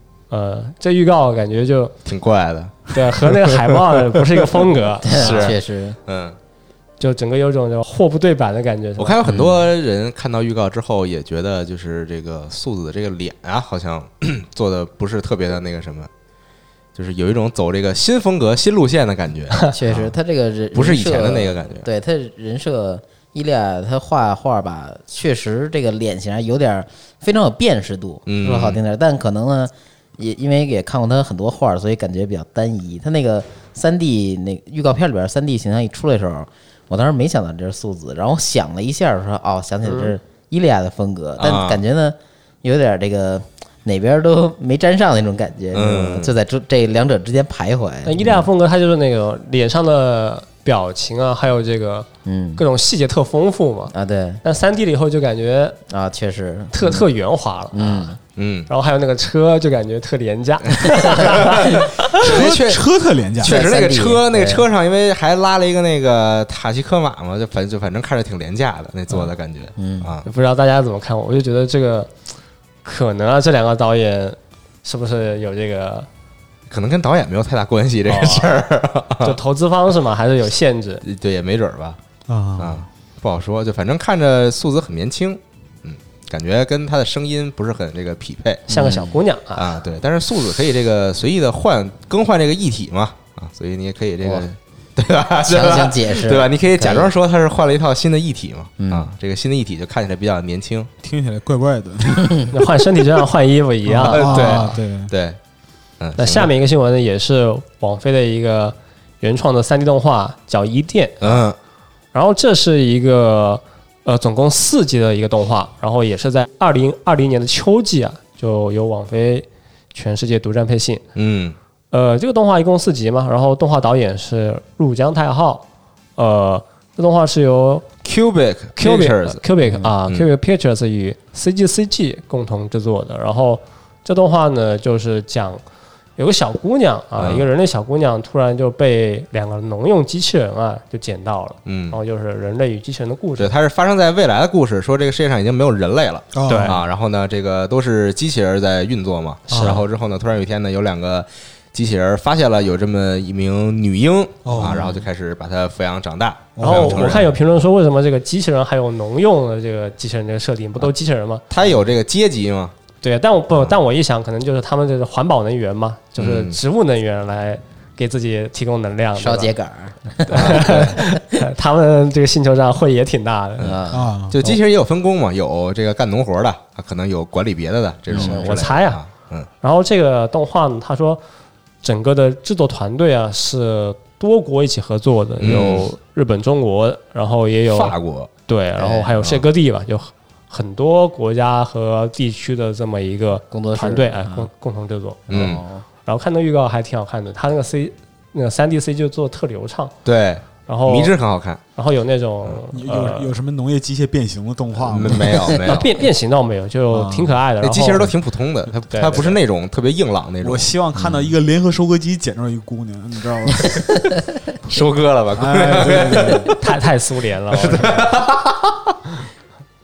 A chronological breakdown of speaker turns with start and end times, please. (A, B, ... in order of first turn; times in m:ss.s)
0:00.3-0:01.9 A
0:02.1-0:03.4 B
0:02.9-0:05.6 A
0:05.0-0:06.0 C
0:05.1-0:05.6 B
0:06.1-0:06.4 B
0:07.0-0:09.2 A
0:09.0-0:16.1 B
0:09.2-0:09.6 C
0:17.0-0:20.1 B
0:19.7-0:48.5 C
0:20.7-0:21.9 B
0:28.3-0:28.8 B
0:39.9-0:40.1 A
0:41.4-0:41.8 B
0:45.7-0:46.4 B
0:48.0-0:53.9 A
0:52.2-0:52.6 C
0:53.9-0:54.4 C
0:54.4-0:55.8 A
0:55.9-0:57.1 C
0:56.7-0:58.1 A
0:57.7-0:58.2 C
0:58.4-0:58.7 B
0:58.7-1:02.0 A
1:00.9-1:02.9 B
1:02.2-1:03.6 D
1:03.4-1:10.3 B
1:03.4-1:04.7 C
1:09.8-1:10.1 C
1:10.2-1:12.1 A
1:12.8-1:16.1 A
1:16.7-1:19.4 B
1:18.1-1:18.5 A
1:19.2-1:21.0 A
1:21.0-1:22.0 B
1:22.3-1:22.9 D
1:22.6-1:28.6 B
1:28.7-1:29.7 A
1:28.7-1:29.2 C
1:29.6-1:40.9 B
1:35.4-1:37.1 C
1:38.8-1:39.1 C
1:41.0-1:42.5 D
1:42.5-1:44.7 A
1:43.9-1:45.1 D
1:44.1-1:45.4 B
1:46.0-1:46.5 B
1:46.2-1:51.4 A
1:51.2-1:51.6 B
1:52.1-2:01.0 A
2:01.2-2:01.6 B
2:01.9-2:05.6 A
2:06.2-2:07.8 A
2:08.0-2:09.4 B
2:08.8-2:15.6 A
2:16.2-2:23.5 A
2:17.2-2:17.4 B
2:21.7-2:22.0 B
2:23.4-2:37.3 B
2:26.3-2:26.8 D
2:26.5-2:26.8 A
2:29.5-2:29.8 A
2:29.5-2:29.8 D
2:34.4-2:35.0 D
2:34.6-2:35.0 C
2:36.6-2:37.2 D
2:36.6-2:41.4 A
2:41.5-2:42.7 B
2:43.0-2:49.5 A
2:46.2-2:46.6 B
2:49.2-2:51.1 C
2:50.3-2:51.0 B
2:50.3-2:53.7 A
2:53.6-2:59.5 B
2:53.6-2:54.1 C
2:53.9-2:54.4 D
2:58.1-2:58.6 C
2:58.1-2:59.0 A
2:59.6-3:01.2 A
3:01.8-3:07.9 A
3:05.4-3:05.9 B
3:07.7-3:08.3 B
3:08.5-3:15.3 A
3:08.8-3:09.2 C
3:13.5-3:14.5 C
3:15.3-3:15.8 C
3:15.3-3:15.6 B
3:16.1-3:19.9 A
3:20.0-3:21.6 B
3:20.7-3:21.1 A
3:21.8-3:23.3 A
3:22.7-3:25.6 D
3:24.8-3:25.9 B
3:25.6-3:28.1 A
3:26.9-3:27.3 D
3:27.6-3:30.7 B
3:28.9-3:29.4 A
3:30.4-3:34.0 D
3:34.6-3:36.6 B
3:35.4-3:36.6 D
3:36.6-3:38.1 A
3:37.5-3:38.9 B